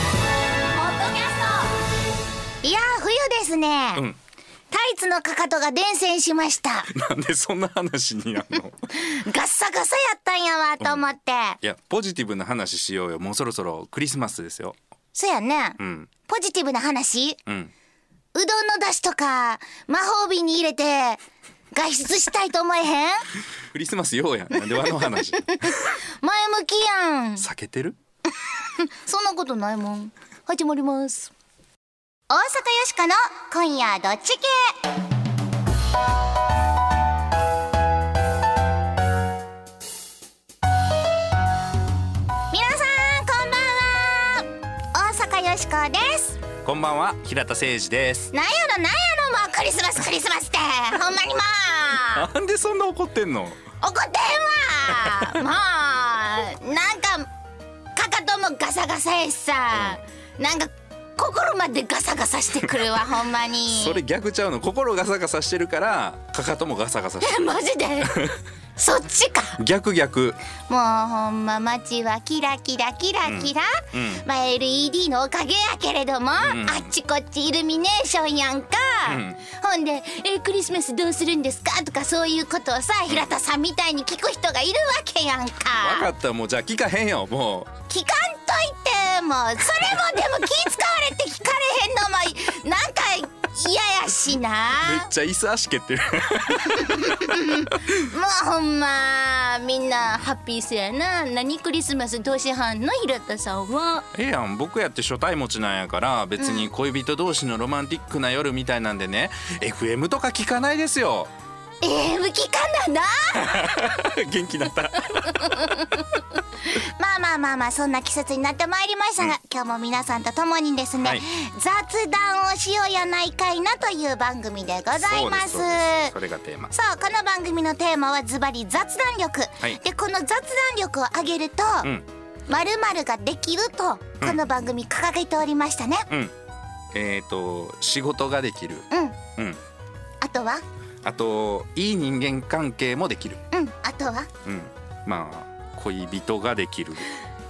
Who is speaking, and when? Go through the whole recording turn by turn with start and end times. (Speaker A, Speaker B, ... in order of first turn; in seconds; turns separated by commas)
Speaker A: 0.7-1.8, Speaker A: 2.6-4.0, Speaker A: 4.7-6.9, Speaker B: 6.9-8.8, Speaker A: 8.9-11.6, Speaker B: 10.8-11.1, Speaker B: 11.6-14.8, Speaker A: 15.1-17.4, Speaker B: 15.8-16.1, Speaker B: 17.4-17.7, Speaker A: 18.3-21.2, Speaker A: 21.7-23.2, Speaker B: 23.7-25.9, Speaker A: 24.7-27.5, Speaker B: 27.4-28.0, Speaker A: 28.6-31.3, Speaker A: 32.3-34.8, Speaker A: 42.5-46.4, Speaker B: 46.6-48.3, Speaker A: 48.3-52.2, Speaker B: 52.1-53.6, Speaker A: 53.8-57.3, Speaker A: 57.9-64.0, Speaker B: 59.7-60.0, Speaker B: 63.7-67.4, Speaker A: 67.2-68.2, Speaker B: 68.1-68.4, Speaker A: 68.8-69.6, Speaker B: 69.6-70.4, Speaker A: 70.7-86.1, Speaker B: 73.2-74.2, Speaker B: 76.4-76.9, Speaker B: 79.0-79.4, Speaker B: 85.8-87.7, Speaker A: 87.9-95.1, Speaker B: 94.8-98.0, Speaker A: 96.7-104.0, Speaker B: 104.1-111.3, Speaker A: 106.4-106.7, Speaker A: 111.8-113.6, Speaker B: 113.4-115.7, Speaker A: 115.3-116.0, Speaker A: 116.7-126.1, Speaker B: 125.1-126.7, Speaker A: 126.7-131.9, Speaker A: 132.5-136.1, Speaker B: 136.9-139.6, Speaker A: 138.9-139.2, Speaker A: 140.2-140.6, Speaker B: 141.0-143.4, Speaker A: 143.5-144.3, Speaker B: 144.4-147.1